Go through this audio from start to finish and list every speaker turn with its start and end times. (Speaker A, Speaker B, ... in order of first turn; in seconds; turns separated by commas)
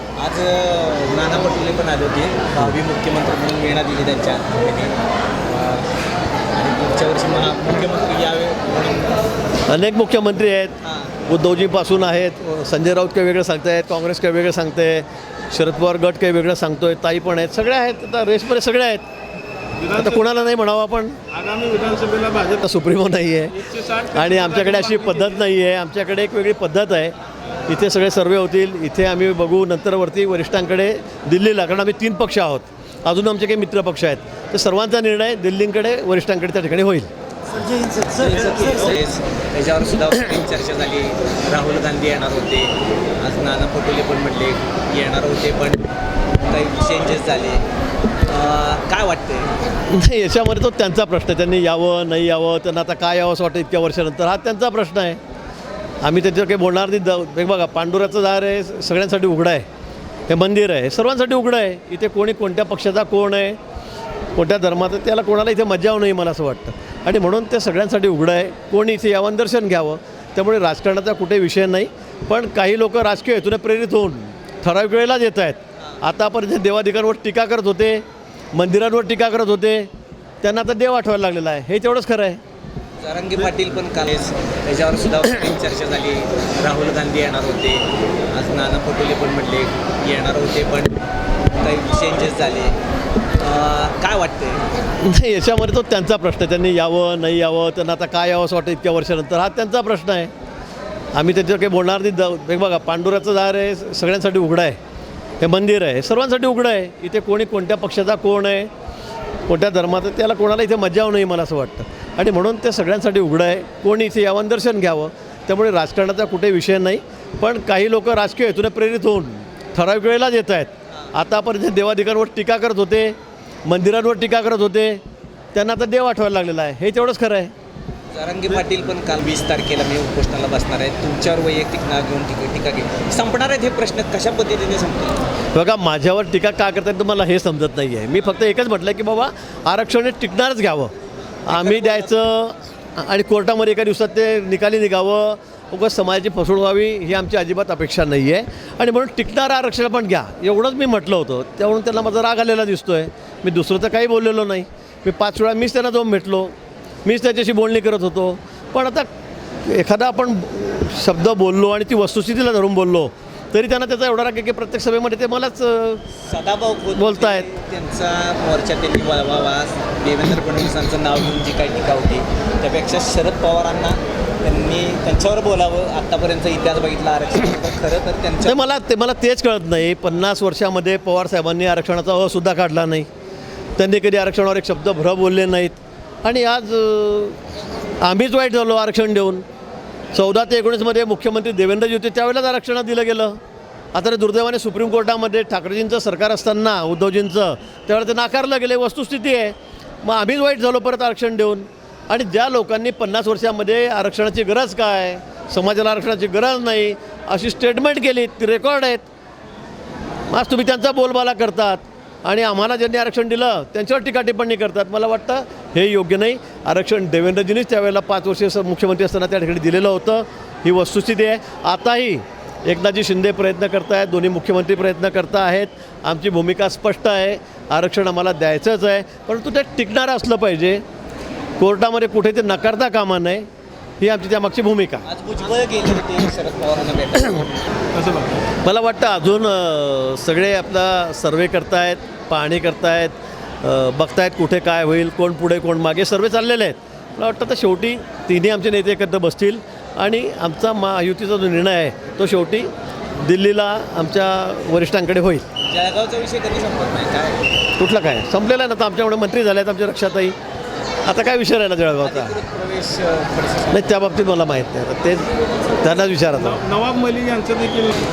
Speaker A: 0.2-5.9, Speaker A: 6.5-9.3, Speaker B: 9.7-10.7, Speaker A: 10.8-11.1, Speaker B: 11.3-19.0, Speaker C: 19.8-20.4, Speaker B: 19.9-21.2, Speaker C: 21.3-22.7, Speaker B: 22.6-23.6, Speaker C: 23.5-25.4, Speaker B: 24.1-27.1, Speaker B: 27.7-37.1, Speaker A: 37.8-45.9, Speaker A: 46.4-47.6, Speaker A: 48.3-49.5, Speaker B: 49.9-55.2, Speaker B: 56.0-59.7, Speaker B: 60.3-63.6, Speaker B: 64.3-78.0, Speaker B: 78.5-79.9, Speaker B: 80.4-82.4, Speaker A: 83.0-92.8, Speaker A: 93.4-94.6, Speaker B: 95.0-100.3, Speaker B: 101.2-104.8, Speaker B: 105.4-108.7, Speaker B: 109.5-125.0, Speaker B: 125.5-127.5, Speaker A: 128.1-135.2, Speaker B: 135.5-140.9, Speaker B: 141.4-156.5, Speaker A: 141.5-142.1, Speaker B: 157.0-159.1, Speaker B: 159.6-166.0, Speaker A: 166.2-178.7, Speaker B: 166.9-167.5, Speaker B: 178.4-183.1, Speaker B: 183.8-187.4, Speaker B: 188.0-189.4, Speaker B: 190.1-193.4, Speaker B: 193.9-209.0, Speaker B: 210.3-230.8, Speaker B: 231.6-233.4, Speaker B: 234.0-235.0, Speaker A: 235.1-237.5, Speaker C: 237.9-238.4, Speaker B: 238.6-255.5, Speaker A: 255.6-257.5, Speaker B: 257.8-260.4, Speaker B: 261.1-262.4, Speaker A: 262.0-264.1, Speaker B: 263.7-266.6, Speaker C: 266.4-268.0